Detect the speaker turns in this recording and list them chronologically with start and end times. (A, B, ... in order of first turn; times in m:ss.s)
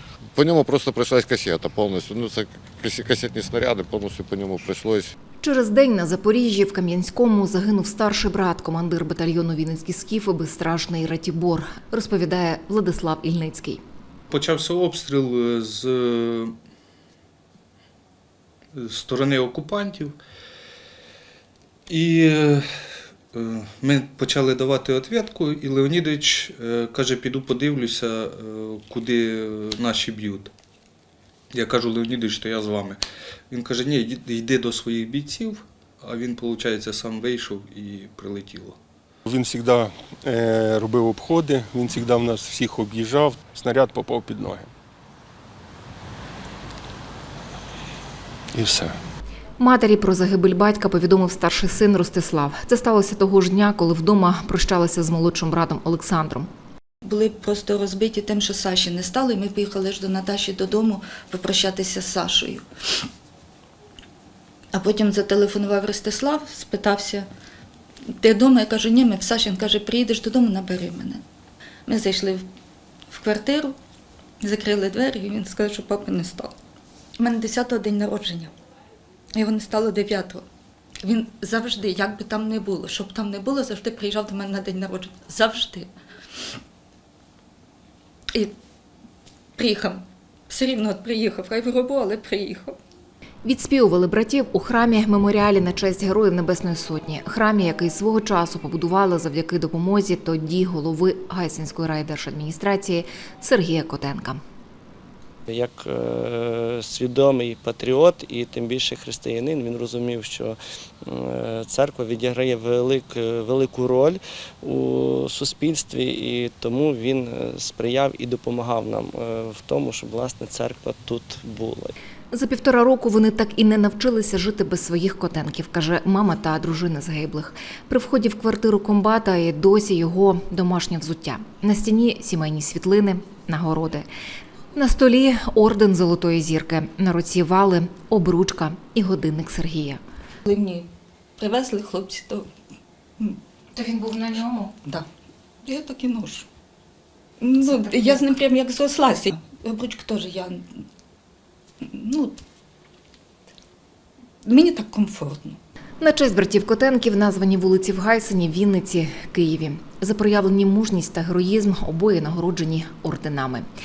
0:00.3-0:05.1 A
0:05.4-0:13.8 B
0:14.3-0:16.5 C
0:18.7-0:20.2 C
0:21.9-0:22.6 C
0:23.3-0:30.5 C
0:31.5-0:38.8 C
0:39.3-0:44.7 D
0:49.6-0:56.5 B
0:57.0-1:02.6 E
1:04.7-1:07.3 E
1:08.2-1:11.2 E
1:11.8-1:12.4 E
1:13.1-1:13.8 E
1:14.4-1:16.5 E
1:17.2-1:18.5 E
1:19.3-1:20.4 E
1:21.0-1:25.9 E
1:29.6-1:32.8 E
1:33.4-1:44.4 B
1:45.5-2:01.9 F
2:02.3-2:14.1 B
2:14.7-2:20.0 B
2:20.5-2:22.5 E
2:23.7-2:24.7 B
2:25.6-2:26.5 E
2:27.4-2:30.8 E
2:27.6-2:28.3 B
2:31.8-2:32.4 E
2:34.4-2:35.6 E
2:36.0-2:43.6 B